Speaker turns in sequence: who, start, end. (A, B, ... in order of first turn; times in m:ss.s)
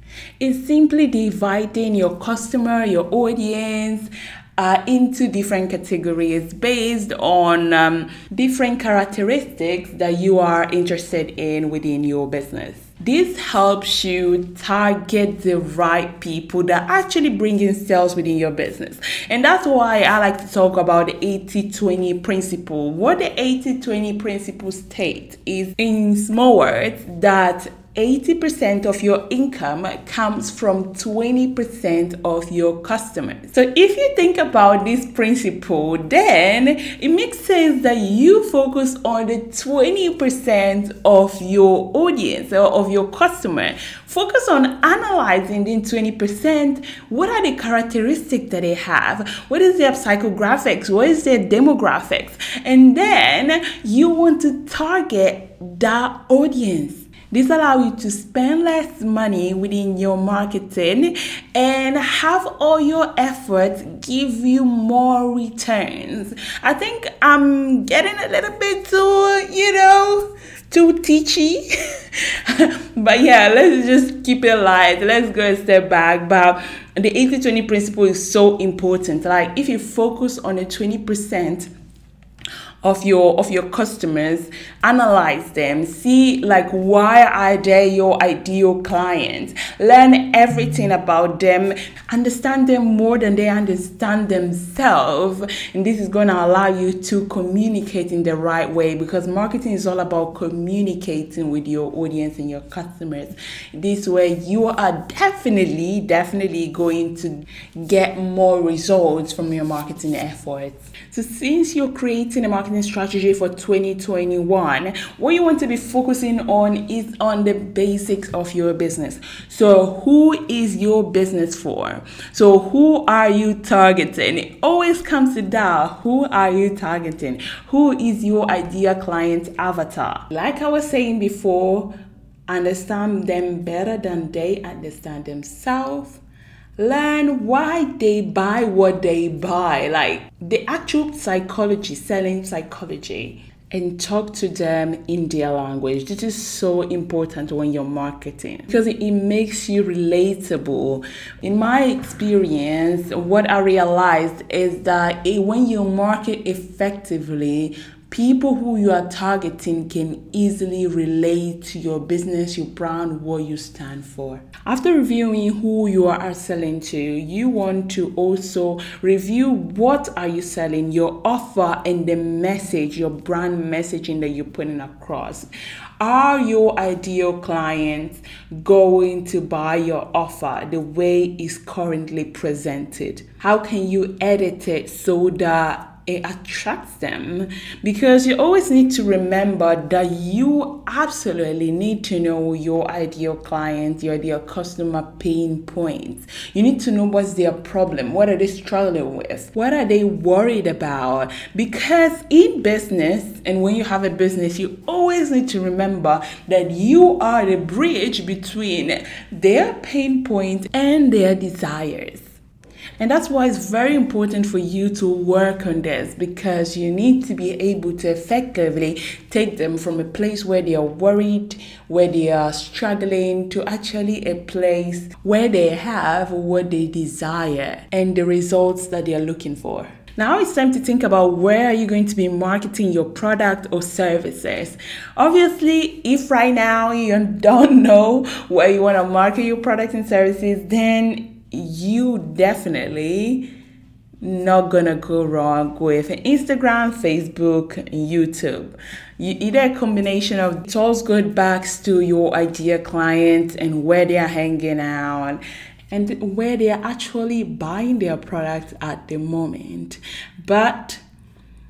0:00.4-1:21.7 A
1:22.8-2:11.9 A
2:12.5-2:16.2 A
2:16.8-2:55.5 A
2:56.0-3:32.3 A
3:33.0-4:03.4 A
4:04.2-4:21.0 A